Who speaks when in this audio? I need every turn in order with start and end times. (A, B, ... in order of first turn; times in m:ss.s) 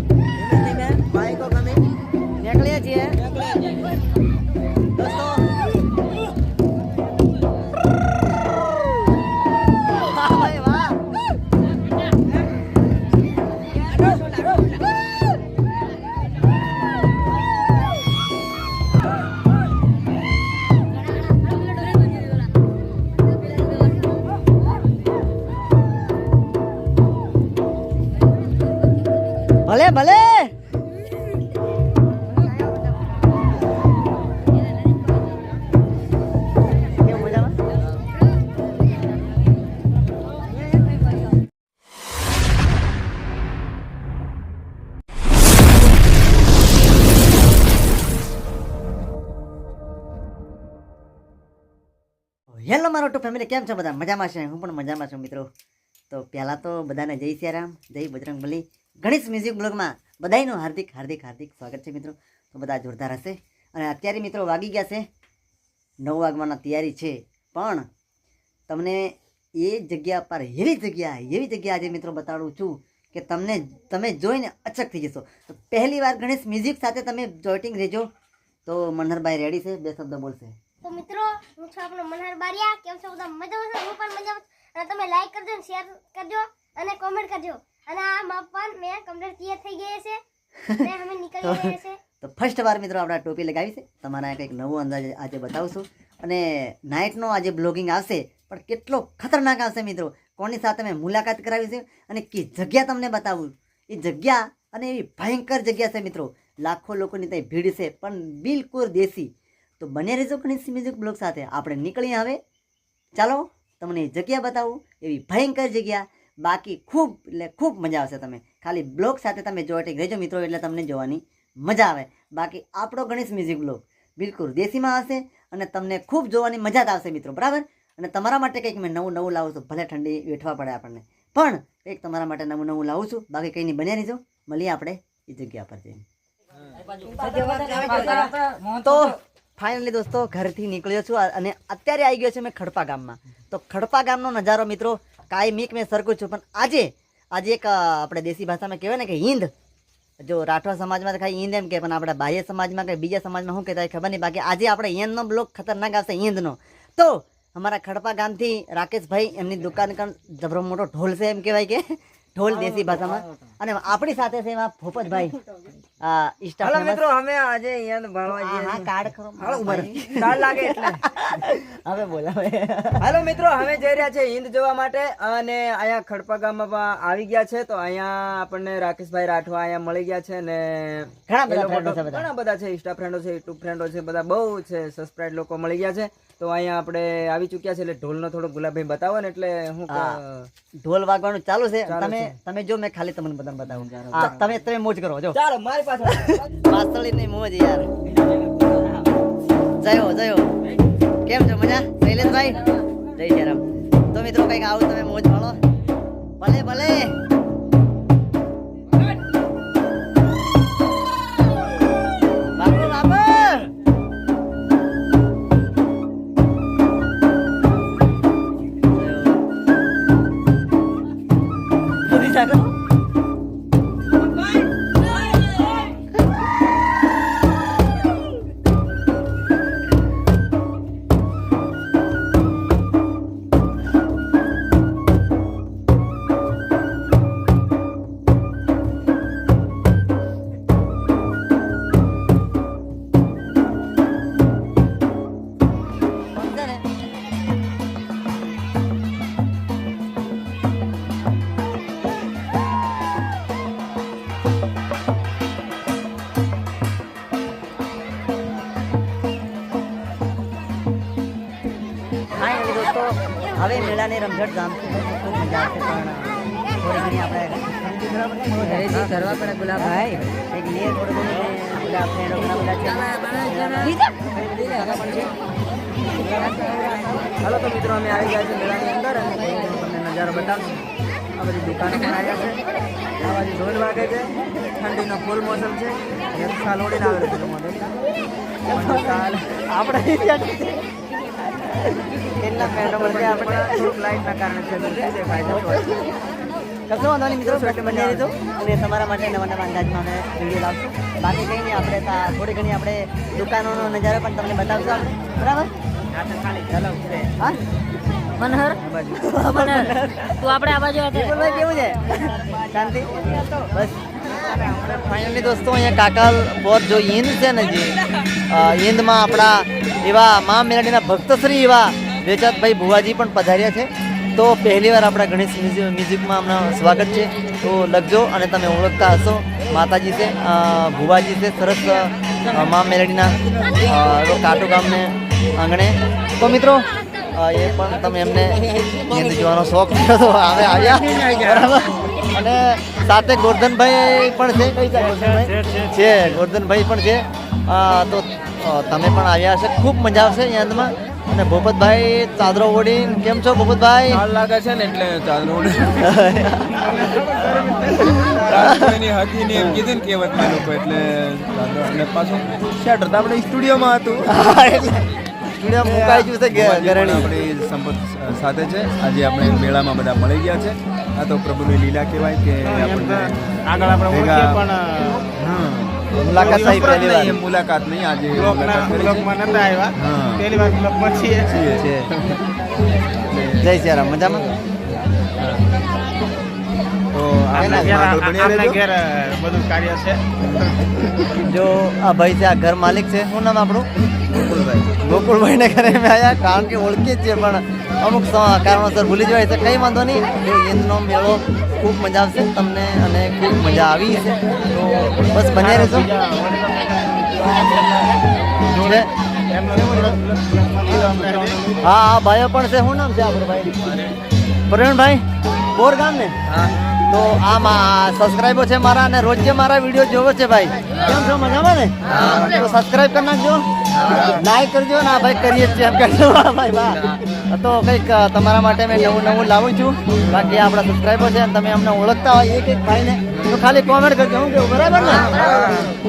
0:00.5-0:01.8 A
0:02.4-0:03.2 B
0:05.0-0:05.5 B
0:09.9-0:11.0 B
0:29.7-0:30.5 B
0:37.0-0:37.6 B
0:52.6-0:55.5 B
0:56.1-1:05.1 B
1:06.0-1:07.9 B
1:08.7-1:18.1 B
1:18.7-1:20.6 B
1:20.8-1:30.2 C
1:30.6-1:52.4 B
1:30.8-1:32.0 C
1:53.2-2:16.0 B
2:17.1-2:29.5 B
2:17.4-2:18.5 A
2:30.2-2:45.4 B
2:46.0-2:47.0 B
2:46.6-2:51.0 A
2:48.3-2:53.1 B
2:53.0-3:10.5 A
3:01.3-3:02.3 B
3:09.9-3:10.2 B
3:10.8-3:15.4 B
3:11.9-3:12.4 A
3:13.7-3:14.6 A
3:15.3-3:16.4 A
3:16.2-3:17.9 B
3:19.8-3:20.5 B
3:21.2-3:22.6 B
3:23.1-3:25.6 B
3:26.4-3:27.2 B
3:32.5-3:33.7 B
3:38.9-3:39.4 B
3:42.0-3:42.7 B
4:06.3-4:06.8 B
4:22.4-4:29.5 B
4:28.6-4:30.2 A
4:28.8-4:29.9 D
4:30.4-4:35.3 B
4:36.3-4:40.8 A
4:36.4-4:37.0 B
4:41.4-4:42.6 A
4:43.2-4:47.9 A
4:48.7-4:50.9 B
4:48.7-4:49.4 A
4:51.7-4:54.0 B
4:52.6-4:55.9 A
4:55.5-4:56.1 B
4:56.9-5:05.7 B
4:57.4-4:58.3 A
5:06.2-5:07.3 A
5:08.4-5:08.8 D
5:08.9-5:17.9 B
5:09.5-5:09.9 D
5:10.4-5:11.3 D
5:18.5-5:54.2 B
5:45.6-5:45.8 E
5:54.1-5:56.2 E
5:56.0-5:56.8 B
5:56.8-5:58.7 F
5:58.5-6:04.3 E
6:04.3-6:07.3 B
6:05.8-6:14.6 E
6:12.6-6:15.3 F
6:15.4-6:19.3 E
6:16.2-6:17.3 B
6:16.3-6:17.3 F
6:18.3-6:21.5 F
6:20.0-6:20.5 E
6:21.5-6:22.4 E
6:23.0-6:23.7 E
6:23.6-6:24.6 B
6:27.1-6:28.8 E
6:27.6-6:30.3 F
6:27.6-6:27.9 B
6:31.4-6:33.9 B
6:34.3-6:35.0 E
6:35.0-6:46.1 B
6:45.5-6:48.0 F
6:48.7-6:49.1 B
6:48.7-6:51.8 F
6:51.8-6:54.0 B
6:54.7-6:56.4 B
6:56.5-6:56.8 A
6:57.1-7:15.7 B
7:02.1-7:02.6 A
7:15.3-7:15.9 A
7:15.4-7:15.9 F